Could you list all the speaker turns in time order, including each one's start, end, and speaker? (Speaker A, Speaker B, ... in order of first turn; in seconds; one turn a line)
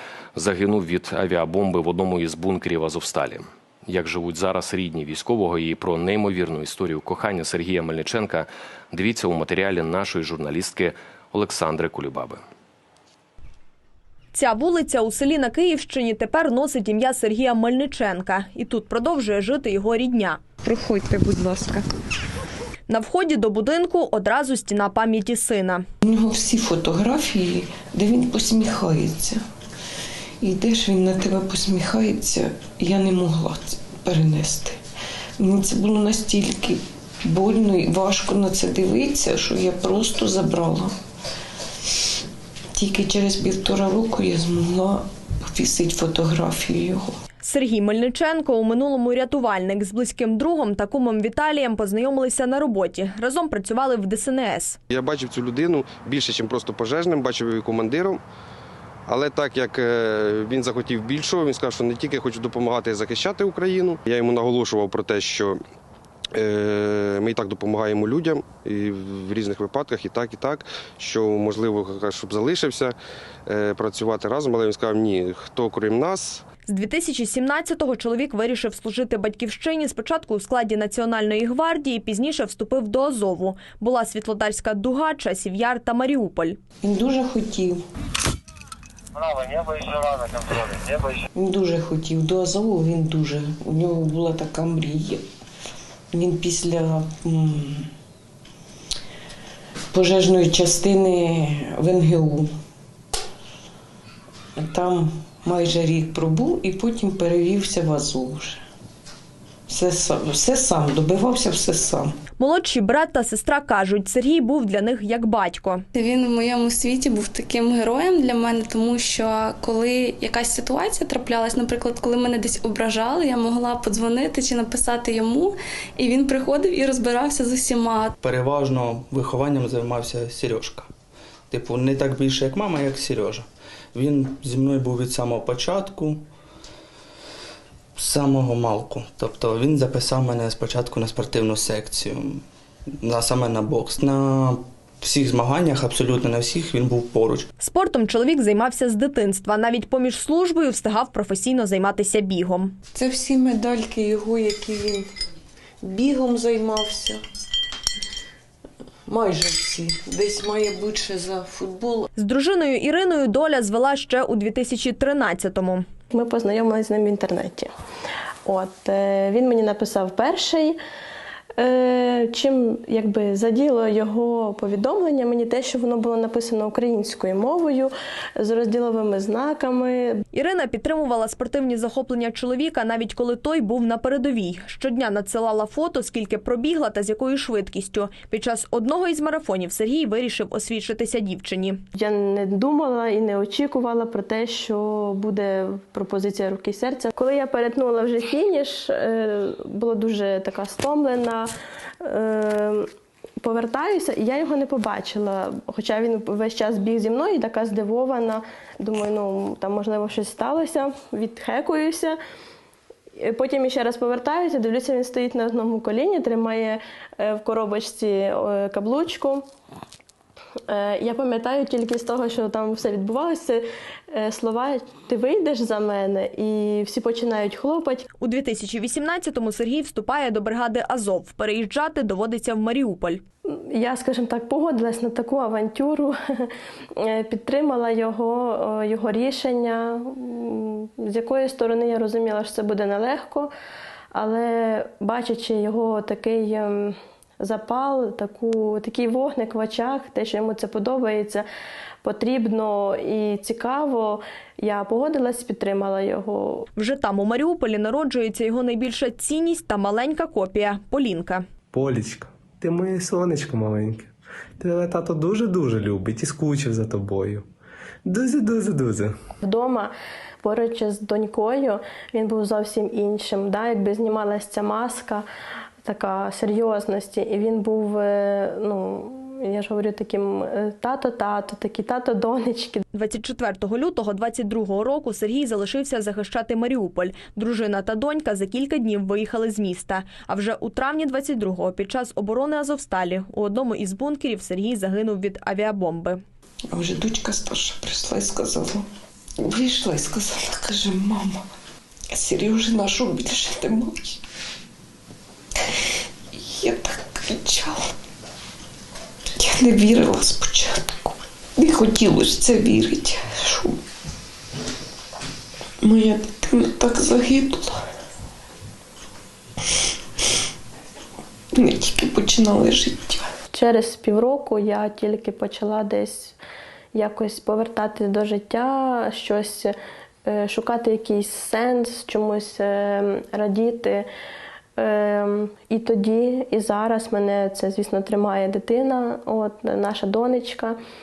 Speaker A: 0.3-12.4
Speaker B: 14.3-20.4
Speaker C: 20.6-21.9
Speaker B: 22.9-25.8
Speaker C: 26.0-29.4
Speaker C: 30.4-34.8
Speaker C: 35.4-40.9
Speaker C: 42.7-47.2
Speaker B: 47.4-54.8
Speaker D: 54.9-58.2
Speaker D: 59.1-65.6
Speaker D: 66.3-76.4
Speaker B: 76.7-86.6
Speaker C: 86.8-87.8
Speaker C: 90.5-95.2
Speaker C: 96.1-97.9
Speaker C: 99.9-102.5
Speaker C: 104.6-108.6
Speaker C: 109.7-112.2
Speaker B: 112.4-115.8
Speaker E: 115.9-128.1
Speaker F: 128.2-130.9
Speaker F: 131.5-136.3
Speaker F: 138.0-142.4
Speaker F: 143.0-147.5
Speaker B: 147.6-152.8
Speaker C: 152.9-155.1
Speaker C: 155.8-157.2
Speaker C: 159.1-162.1
Speaker B: 162.2-165.8
Speaker G: 166.1-167.7
Speaker G: 168.5-170.8
Speaker G: 171.6-180.2
Speaker B: 180.3-191.8
Speaker G: 191.9-201.5
Speaker G: 202.0-202.9
Speaker G: 203.4-212.2
Speaker G: 213.2-219.4
Speaker G: 220.7-228.1
Speaker B: 228.2-233.2
Speaker G: 233.5-243.5
Speaker G: 244.1-251.5
Speaker G: 252.0-256.7
Speaker B: 256.8-261.4
Speaker H: 261.7-267.4
Speaker H: 268.1-269.1
Speaker G: 269.4-269.9
Speaker G: 270.4-275.2
Speaker G: 275.9-282.8
Speaker B: 282.9-296.2
Speaker C: 296.7-298.9
Speaker C: 299.4-301.5
Speaker C: 302.1-304.2
Speaker C: 306.3-307.9
Speaker C: 309.4-313.8
Speaker C: 315.8-317.8
Speaker C: 321.5-323.3
Speaker G: 323.5-326.4
Speaker G: 326.9-329.7
Speaker G: 330.3-334.1
Speaker G: 334.8-340.8